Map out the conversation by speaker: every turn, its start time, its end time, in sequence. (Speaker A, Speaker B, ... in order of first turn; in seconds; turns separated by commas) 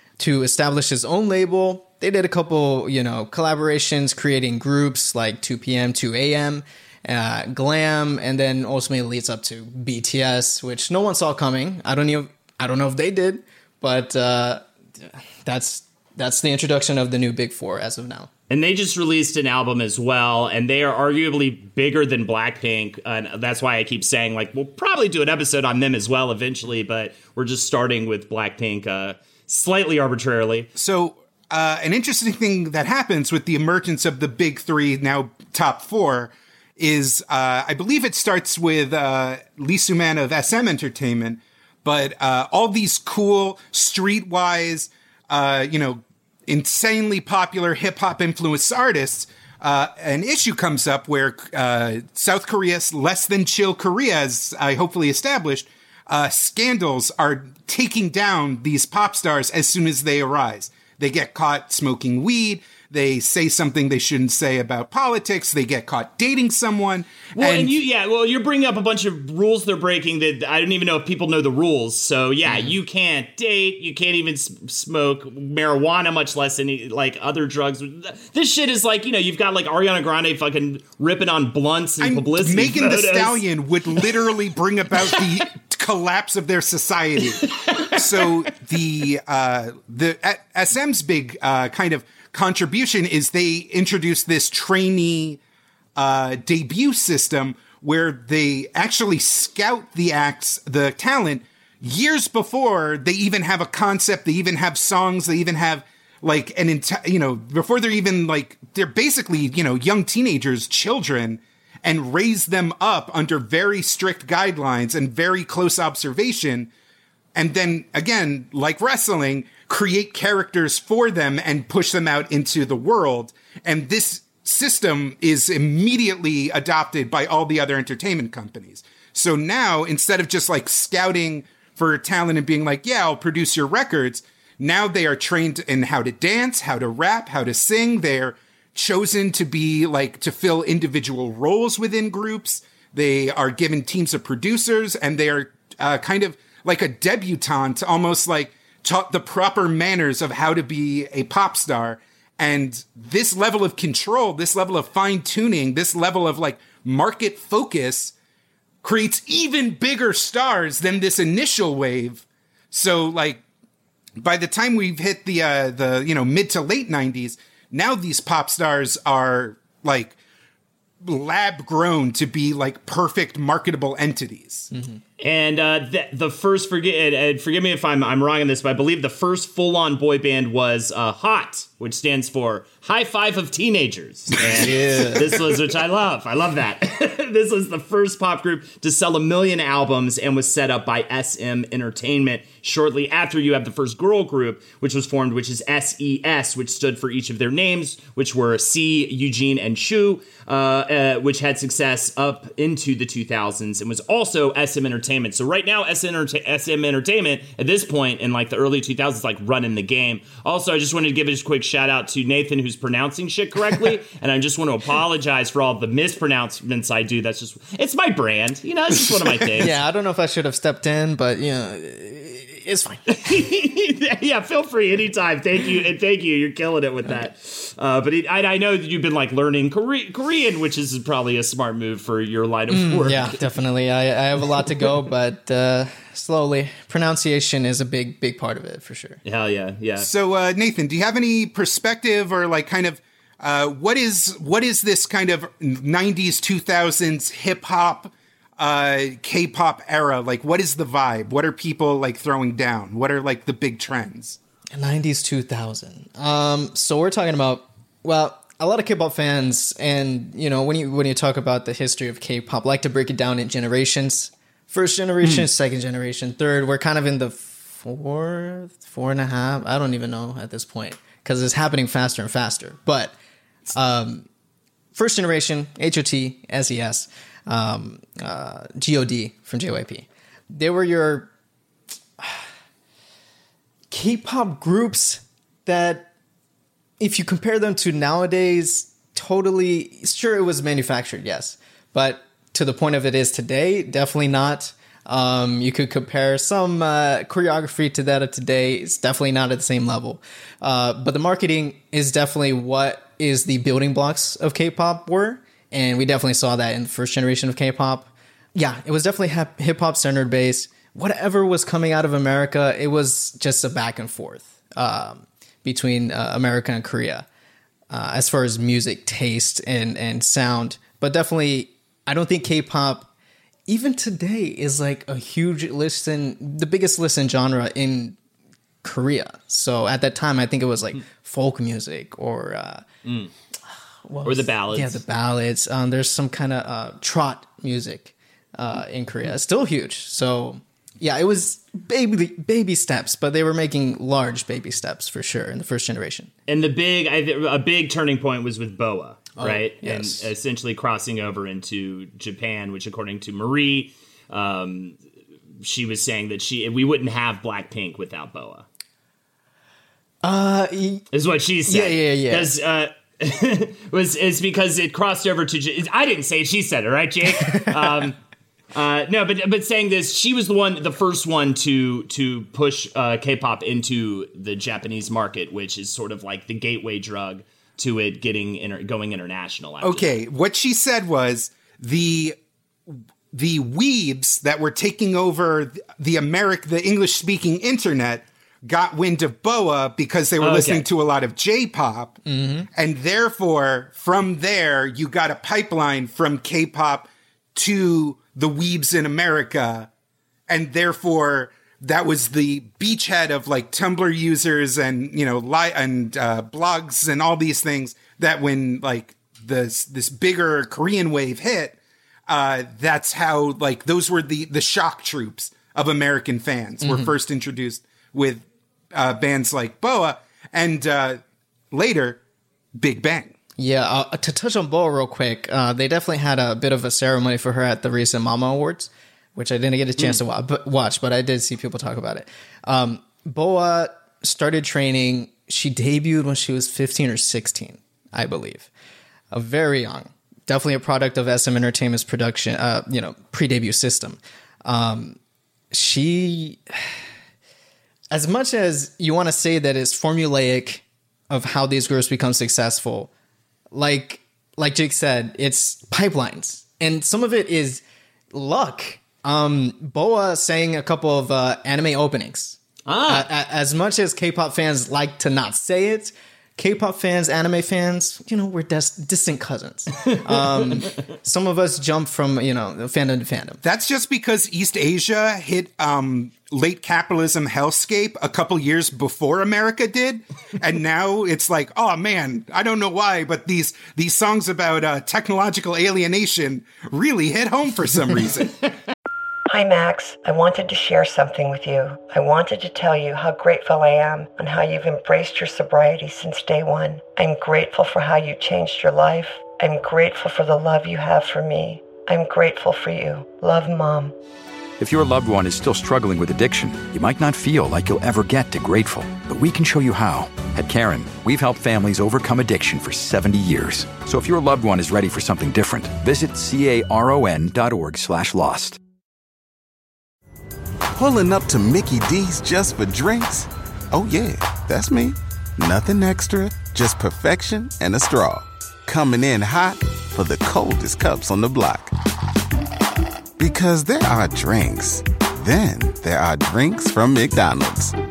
Speaker A: 0.2-18.3, Speaker B: 18.5-30.7, Speaker C: 30.8-67.8, Speaker B: 67.4-83.4, Speaker C: 82.0-95.4, Speaker C: 96.0-116.7, Speaker C: 117.3-158.1, Speaker C: 158.8-163.4, Speaker C: 164.2-170.2, Speaker C: 171.0-174.7, Speaker A: 174.7-175.0, Speaker B: 175.2-219.7, Speaker A: 184.5-185.4, Speaker A: 219.6-223.0, Speaker B: 223.1-233.4, Speaker A: 232.7-239.2, Speaker B: 239.2-240.1, Speaker C: 240.0-254.4, Speaker A: 254.7-273.2, Speaker A: 273.7-274.3, Speaker A: 274.9-281.3, Speaker A: 283.9-286.1, Speaker A: 287.0-317.3, Speaker A: 317.9-323.1, Speaker A: 323.7-328.2, Speaker A: 328.8-332.9, Speaker B: 333.1-333.3, Speaker A: 334.0-346.3, Speaker B: 334.2-335.0, Speaker B: 346.5-355.0, Speaker A: 349.4-350.3, Speaker B: 355.6-358.7, Speaker A: 360.2-361.1, Speaker B: 361.1-368.2, Speaker A: 361.6-362.5, Speaker A: 367.5-368.1, Speaker B: 368.7-380.2, Speaker C: 379.8-382.4, Speaker C: 383.3-392.2, Speaker B: 390.4-390.9, Speaker A: 392.3-392.7, Speaker C: 392.7-399.9, Speaker C: 400.5-411.8, Speaker C: 412.3-421.2, Speaker A: 416.8-417.1, Speaker C: 421.7-422.2, Speaker C: 422.8-423.4, Speaker A: 423.6-438.7, Speaker A: 439.3-445.2, Speaker A: 445.7-447.0, Speaker A: 448.1-453.1, Speaker A: 453.7-473.6, Speaker B: 462.9-463.3, Speaker C: 473.6-488.6, Speaker D: 489.5-504.1, Speaker E: 504.8-518.8, Speaker F: 520.9-531.9, Speaker F: 533.4-537.9